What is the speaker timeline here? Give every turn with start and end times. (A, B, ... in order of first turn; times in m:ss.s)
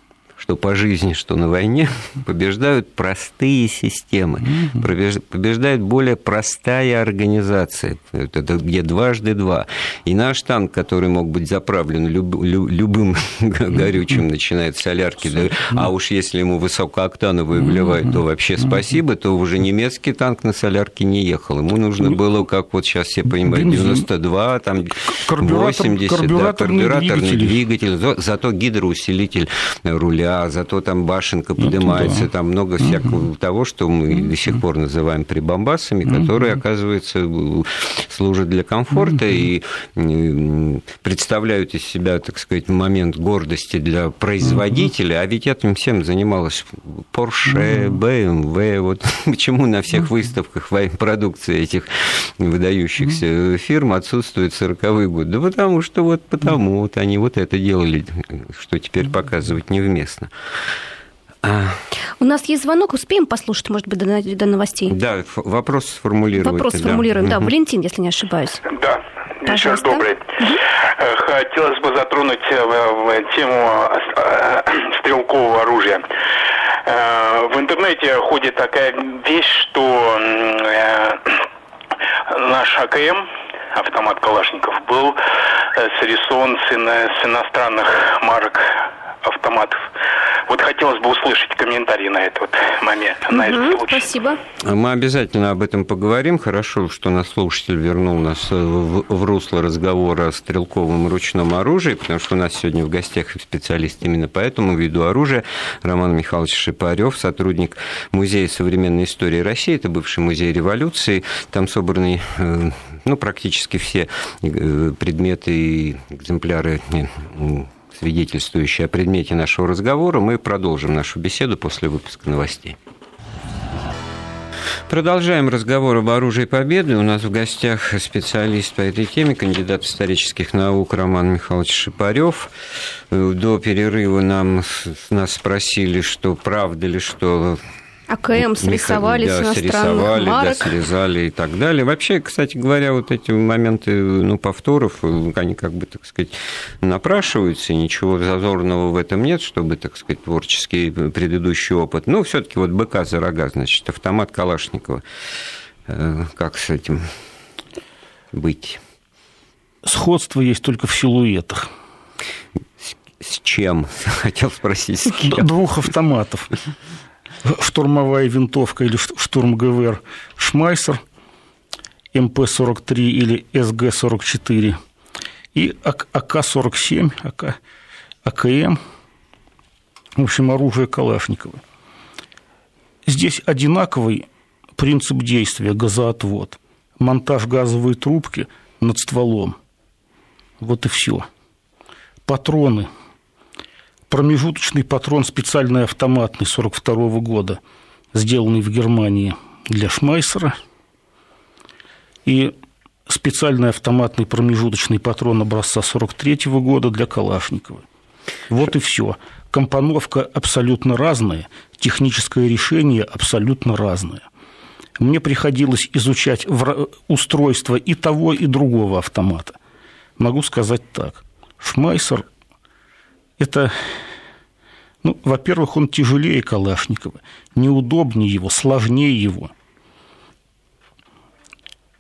0:00.4-1:00.3 A
0:23.5-0:24.0 B
0:25.1-0:27.6 B
0:31.6-0:32.2 B
1:01.4-1:01.8 A
1:02.2-1:04.9 C
1:04.9-1:07.5 A
1:06.4-1:08.6 C
1:08.7-1:16.0 D
1:09.4-1:10.6 C
1:16.8-1:21.4 D
1:22.3-1:23.2 D
1:23.7-1:25.2 D
1:25.8-1:28.6 D
1:29.2-1:29.8 D
1:30.5-1:34.1 D
1:33.3-1:34.4 C
1:34.6-2:02.8 A
2:04.9-2:12.5 A
2:13.1-2:17.6 A
2:18.1-2:20.8 C
2:18.3-2:35.0 A
2:35.9-2:37.1 A
2:38.3-2:38.8 A
2:39.8-2:41.7 B
2:42.8-2:45.5 A
2:45.2-2:46.5 B
2:47.4-2:51.0 B
2:52.1-2:54.8 B
2:55.5-2:57.6 B
2:58.2-2:58.8 B
3:00.2-3:01.6 B
3:03.1-3:04.2 B
3:04.8-3:09.6 B
3:10.6-3:11.3 B
3:12.2-3:12.9 B
3:14.1-3:17.6 B
3:18.1-3:20.6 B
3:22.2-3:22.5 B
3:23.1-3:27.8 B
3:28.5-3:34.2 B
3:35.0-3:39.6 B
3:40.2-3:42.3 B
3:43.4-3:43.7 B
3:45.0-3:49.5 B